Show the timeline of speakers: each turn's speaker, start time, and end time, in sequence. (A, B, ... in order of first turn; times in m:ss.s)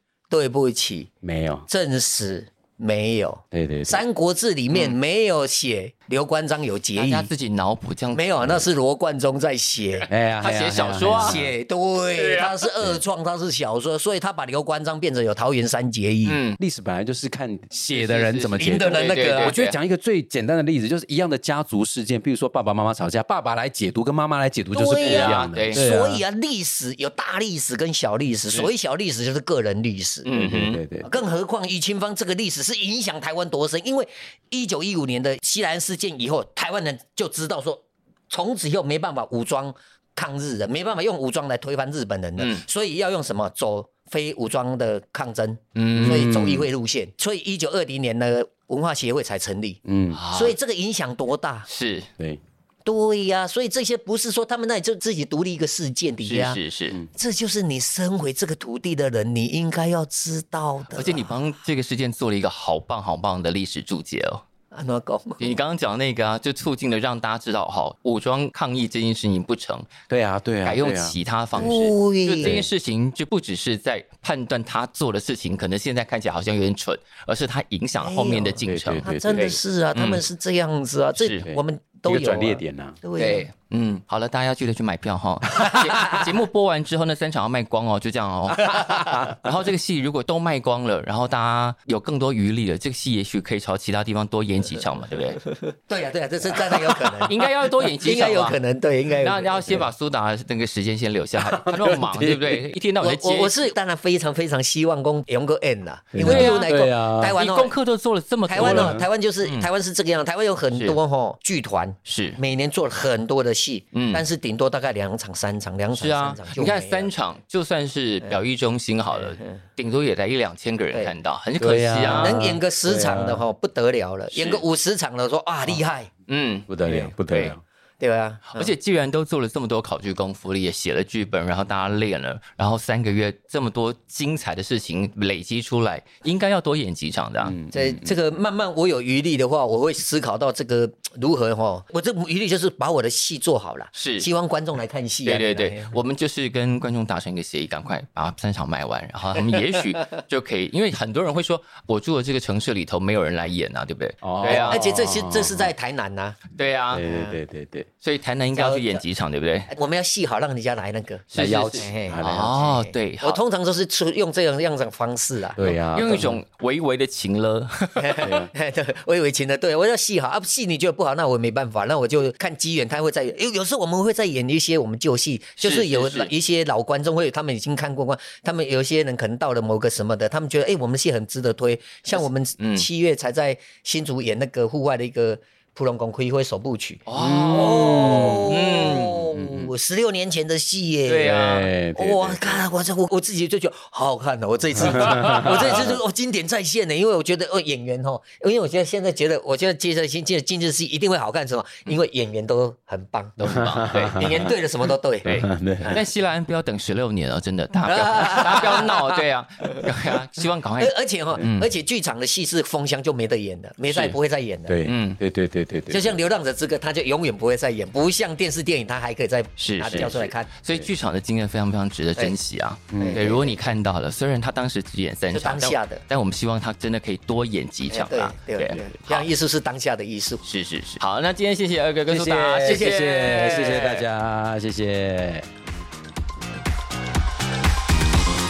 0:00.3-0:01.1 A
0:01.2-0:01.6 B
0:01.7-0:07.3 A
0:03.5-0:04.0 B
0:07.0-0:08.3 C
0:08.1-0:10.1 A
0:10.1-0:11.5 B
0:10.4-0:11.4 C
0:11.1-0:16.4 A
0:12.2-0:12.7 C
0:16.2-0:16.6 C
0:16.6-0:26.2 B
0:17.9-0:19.8 C
0:18.6-0:19.5 A
0:24.7-0:30.3 A
0:25.0-0:25.8 C
0:30.2-0:30.8 C
0:30.3-0:31.1 B
0:31.0-0:49.8 A
0:42.4-0:42.6 C
0:45.8-0:46.3 C
0:46.0-0:46.6 B
0:49.8-0:50.2 B
0:50.1-0:50.6 C
0:50.3-0:51.7 A
0:51.7-0:52.1 C
0:52.8-0:56.6 A
0:56.2-0:57.0 C
0:57.1-1:01.3 A
1:00.9-1:04.4 C
1:04.7-1:05.6 A
1:05.4-1:09.9 C
1:10.1-1:11.6 B
1:10.6-1:20.2 C
1:11.6-1:12.6 A
1:12.4-1:12.7 B
1:18.0-1:23.5 A
1:18.6-1:19.6 B
1:21.2-1:21.4 C
1:21.4-1:23.0 B
1:23.2-1:35.4 C
1:25.6-1:26.2 A
1:28.6-1:29.2 A
1:28.7-1:29.3 B
1:35.6-1:37.4 A
1:36.8-1:38.6 C
1:38.0-1:39.9 A
1:39.2-1:43.6 C
1:41.4-1:42.6 B
1:43.0-1:47.8 A
1:46.1-1:47.4 B
1:46.2-1:49.7 C
1:48.5-1:57.1 A
1:48.6-1:49.0 B
1:50.7-1:51.0 C
1:52.0-1:52.4 C
1:53.9-1:54.2 C
1:55.9-2:02.4 C
2:01.6-2:03.4 B
2:02.1-2:06.1 A
2:04.3-2:04.6 C
2:06.3-2:06.7 C
2:06.7-2:07.6 B
2:06.8-2:07.1 A
2:07.2-2:07.5 C
2:08.0-2:08.7 A
2:08.5-2:17.6 C
2:17.4-2:18.2 B
2:17.7-2:26.0 A
2:23.9-2:24.3 C
2:25.2-2:34.8 C
2:34.2-2:35.7 B
2:34.4-2:36.4 A
2:36.5-2:37.0 C
2:36.9-2:37.9 B
2:37.0-2:37.4 A
2:38.0-2:39.7 C
2:38.5-2:39.0 A
2:39.7-2:41.2 A
2:41.3-2:43.4 C
2:41.3-2:42.6 B
2:41.8-2:45.6 A
2:45.6-2:46.4 B
2:45.9-2:48.3 C
2:48.0-3:23.4 A
2:48.2-2:48.5 B
2:55.6-2:56.3 C
3:02.1-3:02.9 C
3:07.1-3:09.2 C
3:07.1-3:08.6 B
3:09.2-3:09.7 B
3:11.0-3:11.7 C
3:11.4-3:12.6 B
3:14.8-3:16.0 B
3:23.4-3:24.2 C
3:23.5-3:24.5 B
3:24.1-3:26.0 A
3:25.2-3:26.0 B
3:25.9-3:31.7 C
3:27.8-3:29.8 A
3:30.8-3:34.8 A
3:33.9-3:34.2 C
3:34.7-3:36.1 B
3:34.8-3:35.2 C
3:35.9-3:40.5 A
3:39.6-3:49.2 C
3:39.9-3:40.2 B
3:42.9-3:43.2 B
3:43.0-3:43.5 A
3:45.3-3:46.0 A
3:47.9-3:50.4 A
3:50.4-3:54.0 C
3:52.1-3:55.5 B
3:52.6-3:54.0 A